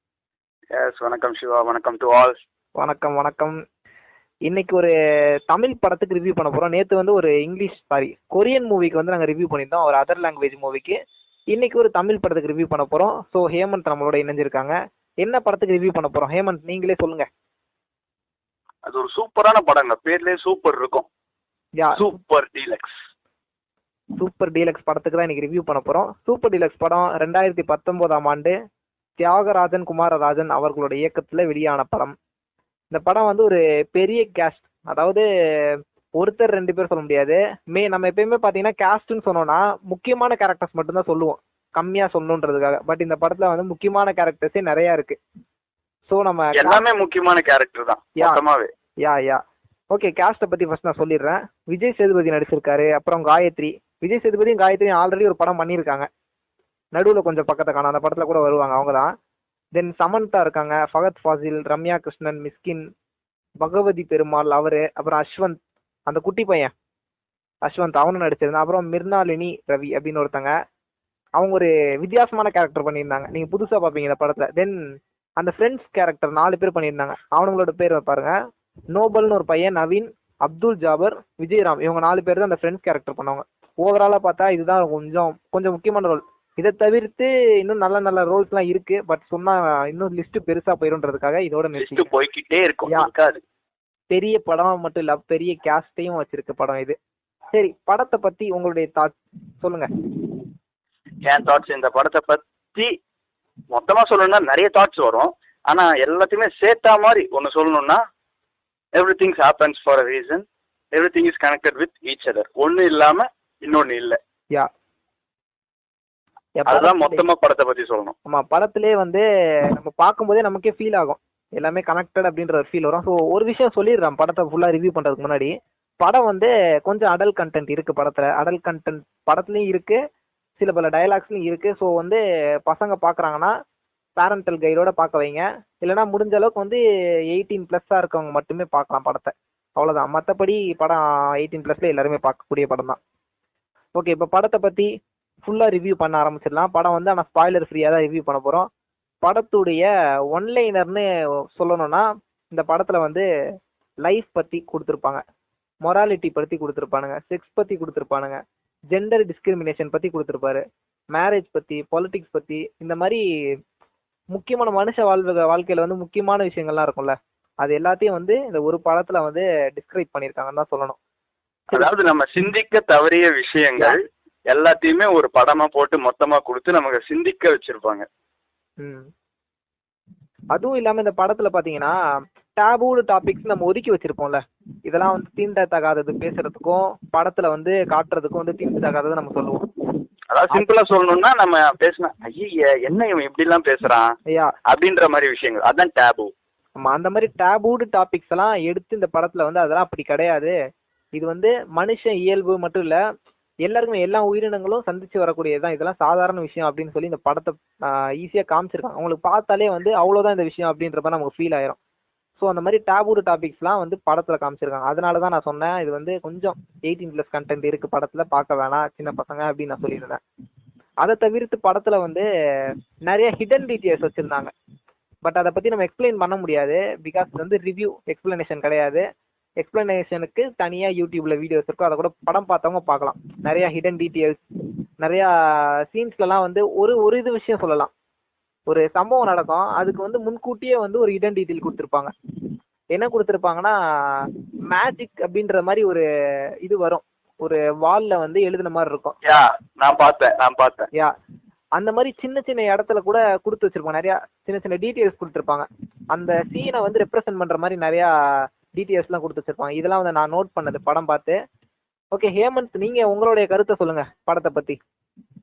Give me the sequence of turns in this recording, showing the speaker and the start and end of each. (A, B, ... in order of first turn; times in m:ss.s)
0:00.8-0:02.4 A
0:02.8-0:03.6 B
0:04.5-0:04.9 B
0:05.5-0:11.0 B
0:11.5-0:17.3 B
0:18.8-0:21.1 A
0:21.8-0:22.1 B
0:22.0-0:22.9 A
0:24.2-0:28.5 B
0:29.2-0:32.1 B
0:32.9-0:45.2 B
0:46.1-0:46.8 B
0:46.5-0:48.7 A
0:49.0-0:56.1 B
0:56.9-0:59.1 B
0:59.7-1:02.8 B
1:03.6-1:06.7 B
1:07.6-1:10.5 B
1:11.4-1:14.8 B
1:15.4-1:18.3 B
1:18.9-1:32.1 B
1:31.8-1:33.4 A
1:34.1-1:37.0 B
1:37.5-1:39.9 B
1:41.2-1:42.9 A
1:43.7-1:48.0 A
1:48.9-1:54.2 A
1:56.6-1:57.2 B
1:56.7-1:58.1 A
1:58.3-2:10.0 B
2:10.6-2:13.5 B
2:14.2-2:16.8 B
2:17.3-2:23.0 B
2:23.9-2:24.9 B
2:25.4-2:28.7 B
2:29.2-2:33.2 B
2:34.0-2:35.2 B
2:35.8-2:38.4 B
2:38.9-2:40.6 B
2:41.1-2:43.2 B
2:44.3-2:51.0 B
2:51.7-2:54.0 A
2:54.5-2:58.0 A
2:58.8-2:59.1 B
3:00.5-3:01.9 B
3:02.6-3:09.7 B
3:10.3-3:14.1 A
3:14.7-3:16.3 A
3:16.8-3:20.5 B
3:21.2-3:23.0 B
3:23.6-3:31.8 B
3:32.4-3:40.2 B
3:41.0-3:42.2 B
3:43.1-3:44.5 B
3:45.2-3:49.0 B
3:49.6-3:54.4 B
3:55.0-3:55.3 B
3:55.9-3:57.9 B
3:58.7-4:02.1 B
4:02.9-4:06.0 B
4:06.6-4:09.2 B
4:09.2-4:10.9 A
4:11.8-4:18.1 B
4:18.7-4:21.4 B
4:22.1-4:24.8 B